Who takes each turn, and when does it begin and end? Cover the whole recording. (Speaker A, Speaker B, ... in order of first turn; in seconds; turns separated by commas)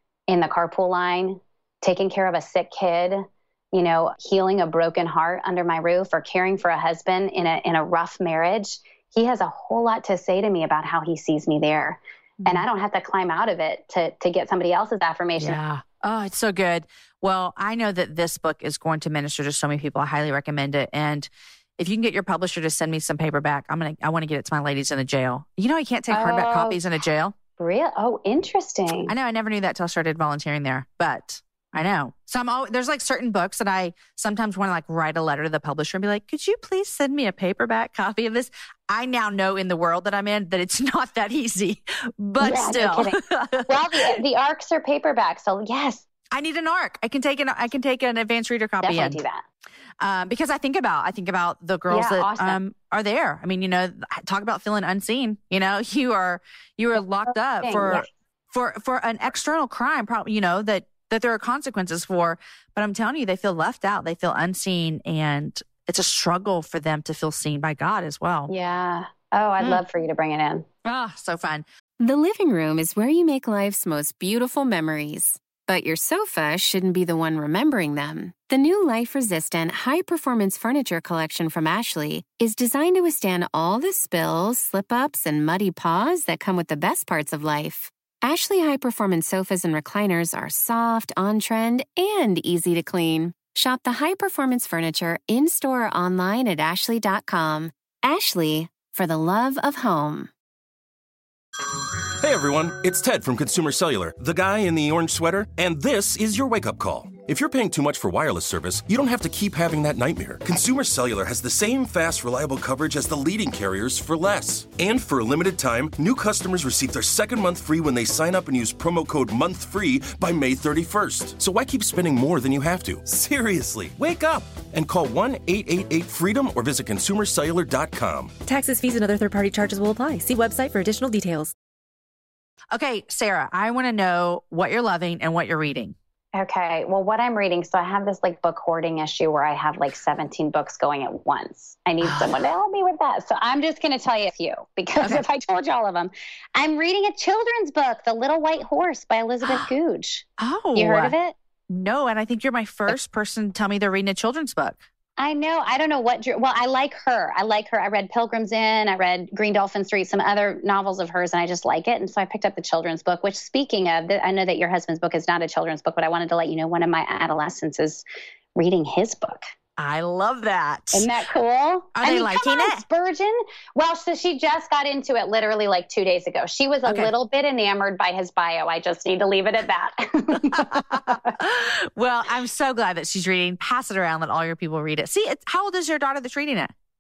Speaker A: 0.3-15.6, Speaker B: 15.4-27.4, Speaker A: 26.1-26.8, Speaker A: 27.6-29.1, Speaker B: 29.0-44.0, Speaker A: 42.4-46.0, Speaker B: 46.3-49.2, Speaker A: 48.8-49.4, Speaker B: 50.0-68.5, Speaker A: 51.9-52.6, Speaker A: 57.3-58.1, Speaker A: 68.5-70.7, Speaker B: 70.8-71.7, Speaker C: 72.0-100.3, Speaker D: 102.2-128.3, Speaker E: 128.5-131.5, Speaker B: 132.7-135.9, Speaker A: 136.3-150.2, Speaker B: 142.0-142.4, Speaker B: 149.4-149.7, Speaker B: 150.4-151.1, Speaker A: 150.8-151.4, Speaker B: 151.7-154.8, Speaker A: 155.2-168.0, Speaker A: 168.6-169.5, Speaker B: 169.8-171.1, Speaker A: 170.9-181.4, Speaker B: 172.0-172.8, Speaker B: 176.8-177.1, Speaker B: 180.5-186.7